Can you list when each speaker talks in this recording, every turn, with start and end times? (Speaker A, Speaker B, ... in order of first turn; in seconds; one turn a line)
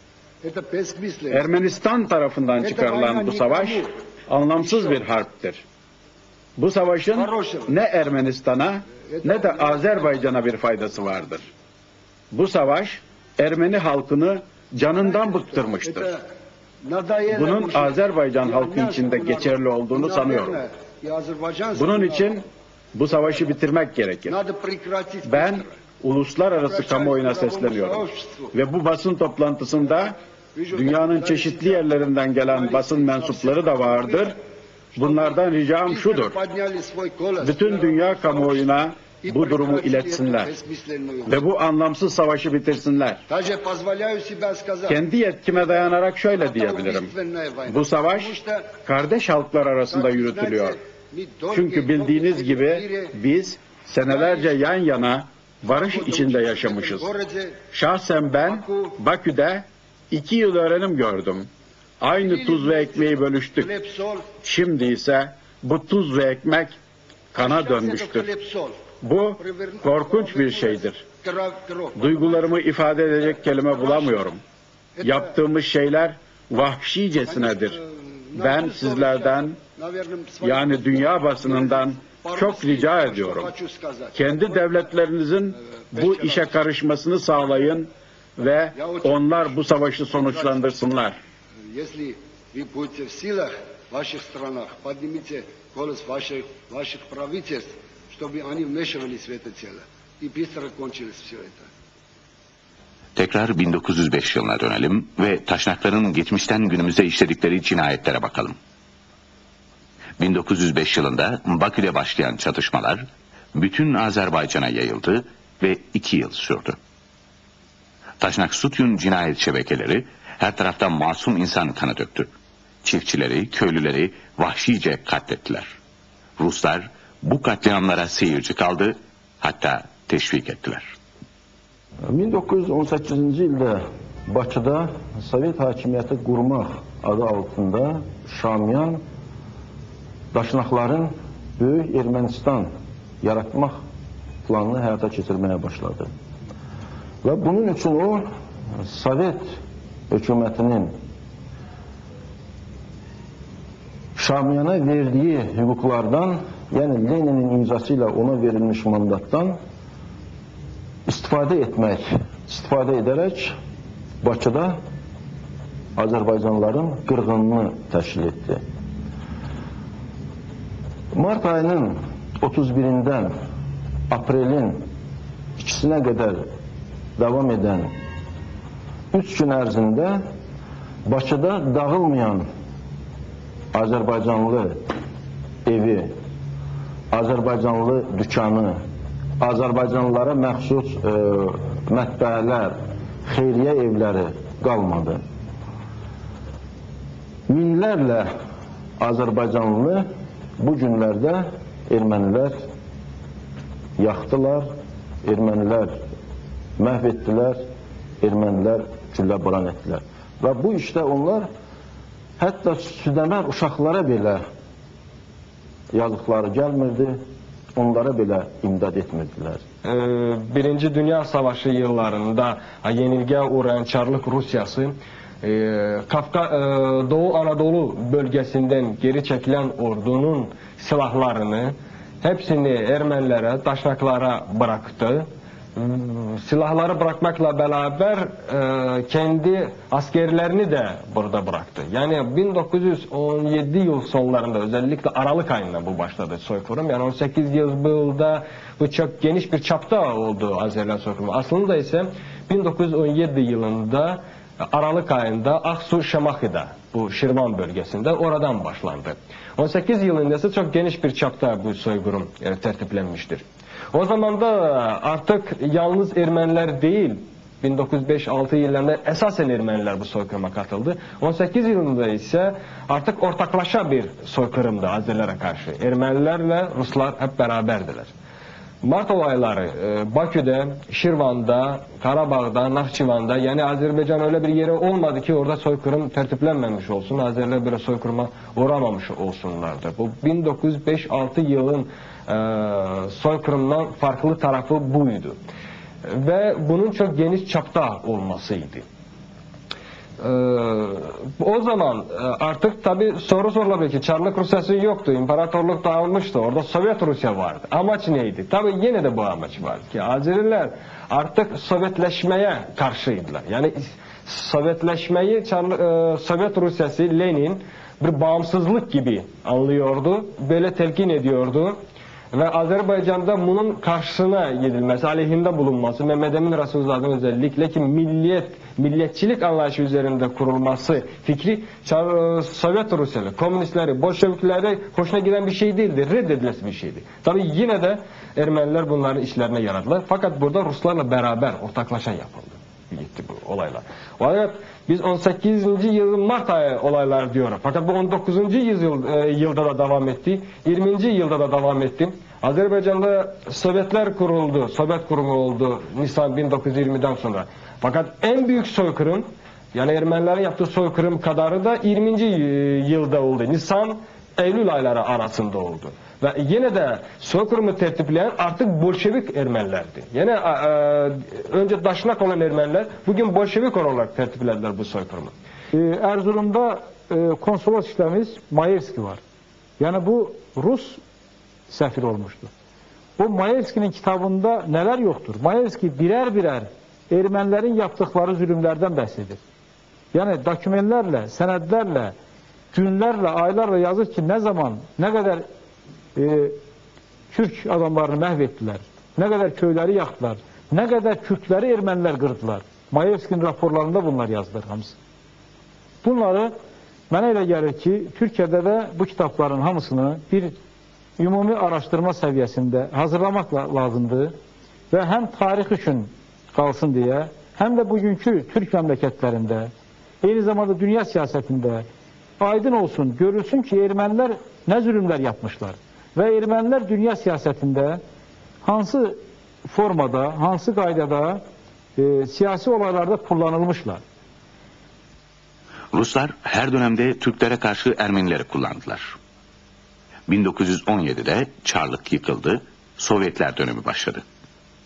Speaker A: 0.4-1.5
Speaker B: 1.3-5.6
Speaker A: 2.6-3.9
Speaker A: 4.6-5.0
Speaker B: 6.6-11.5
Speaker A: 7.1-7.8
Speaker A: 9.0-10.2
Speaker B: 12.3-16.1
Speaker A: 15.0-16.2
Speaker A: 16.8-22.4
Speaker B: 17.3-20.6
Speaker B: 21.7-22.4
Speaker B: 22.9-24.4
Speaker A: 24.2-25.8
Speaker B: 25.2-30.2
Speaker A: 26.5-28.5
Speaker A: 30.5-34.4
Speaker B: 30.7-34.4
Speaker A: 35.0-41.4
Speaker B: 35.0-36.4
Speaker B: 37.4-40.5
Speaker B: 41.3-43.2
Speaker A: 43.3-45.0
Speaker B: 44.9-47.1
Speaker A: 45.8-48.8
Speaker B: 47.7-50.8
Speaker A: 49.9-53.2
Speaker B: 51.5-57.1
Speaker A: 54.1-54.7
Speaker A: 55.6-57.7
Speaker B: 57.7-61.5
Speaker A: 58.4-59.0
Speaker B: 62.0-63.7
Speaker A: 62.1-64.4
Speaker B: 64.4-66.8
Speaker B: 67.3-68.3
Speaker A: 67.4-68.8
Speaker B: 69.0-71.0
Speaker A: 69.4-72.6
Speaker B: 72.0-74.4
Speaker A: 73.8-74.2
Speaker A: 75.0-75.4
Speaker B: 75.0-77.8
Speaker A: 77.3-84.8
Speaker B: 78.3-79.6
Speaker B: 80.4-83.5
Speaker B: 84.1-91.2
Speaker A: 85.9-86.6
Speaker A: 88.7-90.7
Speaker A: 91.7-101.7
Speaker C: 103.2-108.6
Speaker C: 110.2-116.8
Speaker C: 118.2-122.3
Speaker C: 122.8-125.7
Speaker C: 126.4-130.9
Speaker D: 132.1-139.0
Speaker D: 140.3-142.7
Speaker D: 143.2-143.8
Speaker D: 144.4-146.1
Speaker D: 147.2-148.2
Speaker D: 148.8-149.4
Speaker D: 150.1-150.9
Speaker D: 154.2-159.6
Speaker D: 161.1-163.5
Speaker D: 164.2-164.8
Speaker D: 165.9-168.6
Speaker D: 171.1-173.3
Speaker D: 174.1-174.9
Speaker D: 175.6-176.4
Speaker D: 177.2-177.9
Speaker D: 179.1-180.2
Speaker D: 181.1-182.4
Speaker D: 183.7-184.8
Speaker D: 185.7-186.1
Speaker D: 187.1-188.8
Speaker D: 189.4-195.2
Speaker D: 197.5-198.3
Speaker D: 199.0-200.1
Speaker D: 200.6-202.6
Speaker D: 204.0-204.7
Speaker D: 205.2-205.9
Speaker D: 206.8-207.6
Speaker D: 208.2-211.5
Speaker D: 212.4-214.4
Speaker D: 215.9-217.2
Speaker D: 217.7-219.6
Speaker E: 219.8-278.1
Speaker E: 278.8-295.4
Speaker E: 296.0-298.8
Speaker E: 300.2-321.8
Speaker E: 322.3-375.3
Speaker F: 375.7-379.2
Speaker F: 379.8-381.0
Speaker F: 381.7-382.5
Speaker F: 383.2-389.4
Speaker F: 390.1-392.1
Speaker F: 392.7-395.4
Speaker F: 396.1-396.6
Speaker F: 397.3-404.9
Speaker F: 406.0-406.5
Speaker F: 407.1-410.5
Speaker F: 411.2-414.3
Speaker F: 414.9-419.7
Speaker F: 420.2-421.9
Speaker F: 422.4-428.0
Speaker F: 428.6-431.4
Speaker F: 432.0-434.0
Speaker C: 435.9-439.1
Speaker C: 440.3-444.2